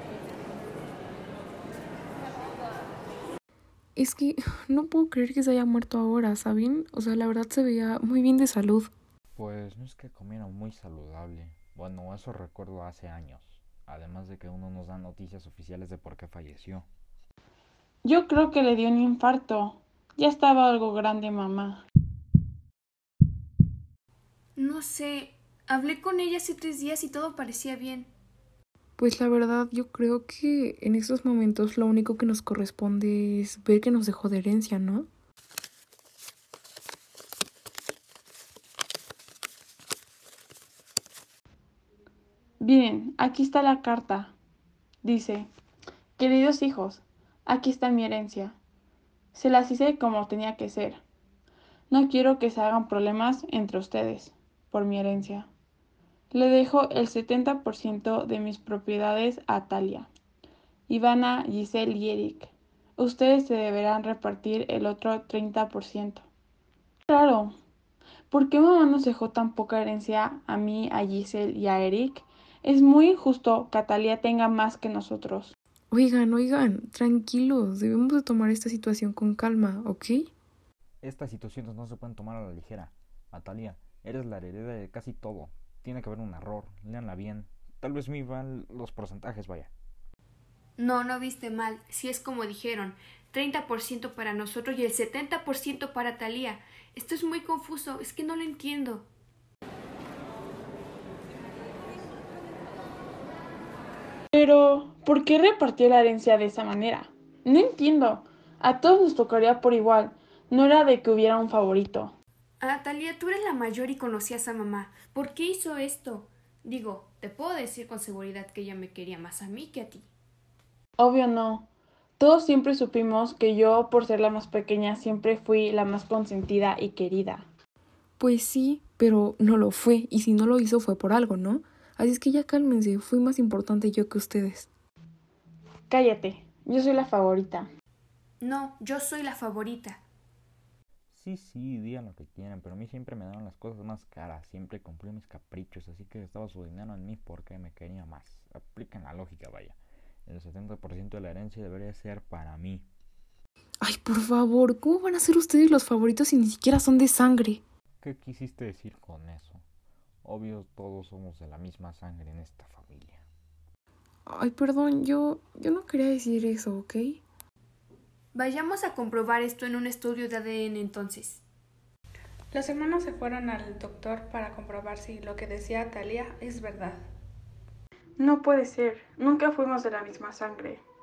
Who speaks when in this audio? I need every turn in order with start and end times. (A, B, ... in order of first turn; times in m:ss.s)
0:04.0-0:08.9 A
0:09.3-0:16.9 B
0:18.0-0:21.8 C
0:24.6-0:28.1 D
0:29.0-0:35.1 A
0:42.6-0:44.3 C
0:45.0-0:45.5 C
0:46.2-0:48.6 C
0:49.3-0:51.0 C
0:51.9-0:55.5 C
0:56.3-1:00.1 C
1:00.9-1:06.2 C
1:07.1-1:07.6 C
1:08.3-1:15.5 C
1:15.9-1:20.3 A
1:21.0-1:29.7 B
1:30.8-1:39.1 D
1:44.3-1:52.2 C
1:52.6-2:00.1 D
2:01.0-2:01.7 C
2:02.2-2:07.5 C
2:08.2-2:14.7 A
2:15.9-2:17.7 C
2:18.4-2:20.0 D
2:21.1-2:32.9 B
2:33.8-2:37.6 A
2:38.0-2:39.6 B
2:40.2-2:43.2 B
2:44.3-2:47.2 A
2:48.3-2:51.4 D
2:52.5-2:57.0 E
2:58.2-3:00.8 C